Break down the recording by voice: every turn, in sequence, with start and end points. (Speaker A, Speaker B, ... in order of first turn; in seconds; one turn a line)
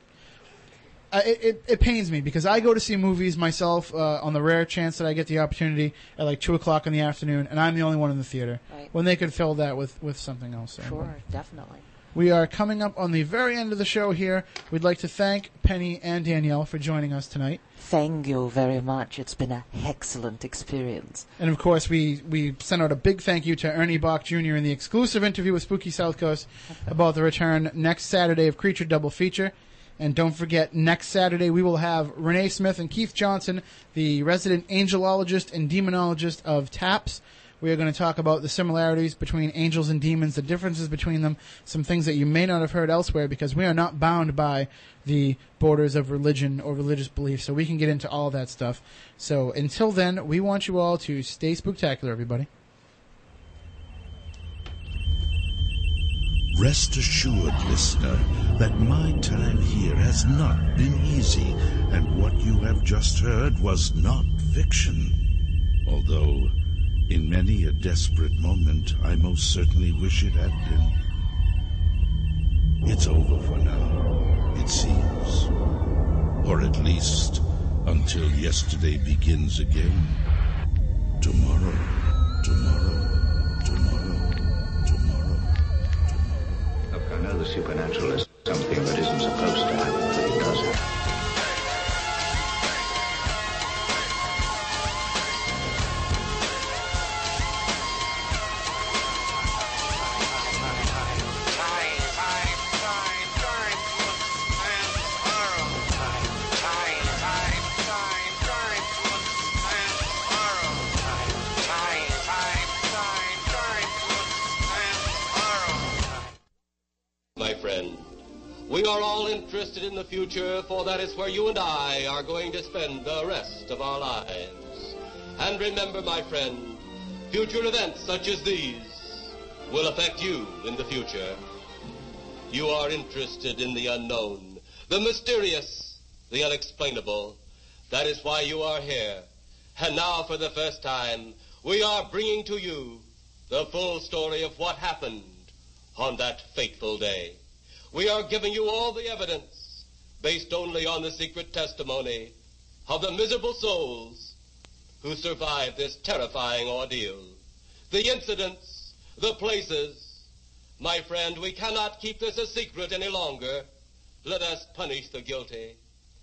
Speaker A: 1.1-11.1
Speaker B: 10.8-11.9
Speaker A: 12.1-17.6
Speaker B: 17.8-21.3
Speaker A: 21.4-52.5
Speaker C: 56.5-65.2
Speaker C: 65.8-66.5
Speaker C: 67.1-71.0
Speaker C: 72.8-75.5
Speaker C: 76.4-80.2
Speaker C: 81.2-85.5
Speaker D: 86.9-90.8
Speaker E: 117.3-118.1
Speaker E: 118.7-131.4
Speaker E: 132.5-147.4
Speaker E: 147.9-154.4
Speaker E: 155.0-157.4
Speaker E: 157.9-160.2
Speaker E: 160.8-163.7
Speaker E: 164.2-165.8